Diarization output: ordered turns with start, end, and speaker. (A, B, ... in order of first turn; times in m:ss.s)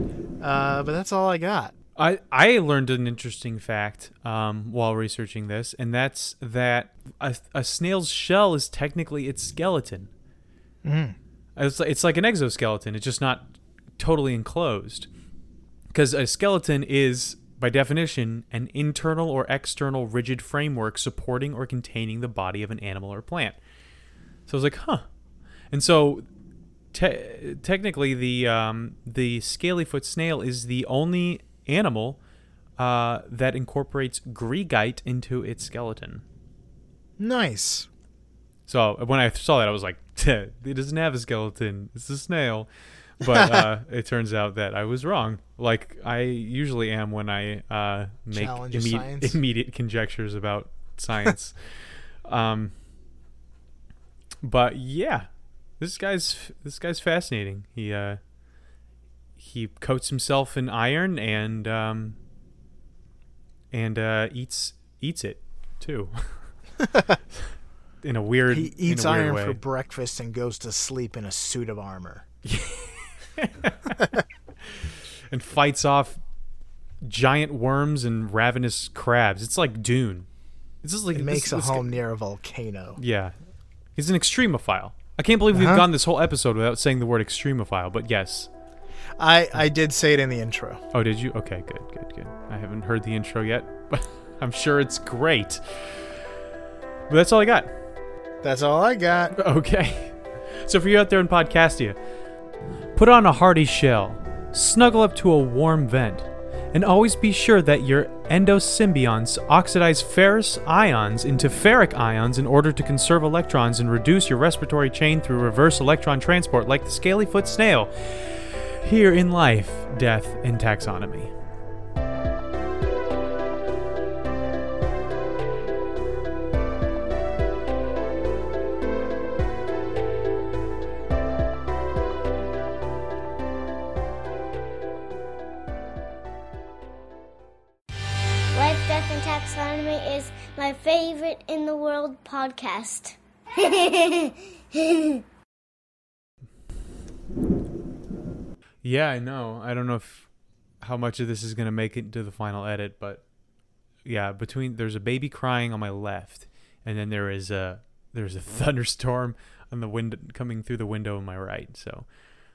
0:00.4-0:01.7 A
0:02.0-0:10.1 B
0:10.8-0:11.2 A
0:11.6-0:15.1 B
0:15.9-0:23.6 B
0:24.5-0:25.1 B
0:25.7-0:26.2 B
0:26.9-0:32.2 B
0:32.8-0:36.2 B
0:37.2-0:37.9 A
0:38.7-0:42.7 B
0:43.2-0:52.7 B
0:43.2-0:43.6 A
0:48.3-0:49.4 A
0:54.4-0:55.3 B
0:55.8-0:58.2 B
0:59.4-1:02.2 B
1:03.7-1:06.5 B
1:08.0-1:09.6 B
1:08.5-1:12.2 A
1:12.4-1:14.1 B
1:14.7-1:16.2 B
1:17.0-1:20.3 B
1:20.8-1:21.9 B
1:21.1-1:23.0 A
1:23.0-1:23.3 B
1:24.0-1:28.5 B
1:25.5-1:25.8 A
1:29.2-1:30.8 A
1:30.9-1:36.2 B
1:37.1-1:37.8 B
1:38.4-1:39.4 A
1:39.4-1:42.0 B
1:43.0-2:01.3 B
2:18.5-2:25.2 C
2:28.8-2:30.3 B
2:30.8-2:33.2 B
2:34.0-2:42.1 B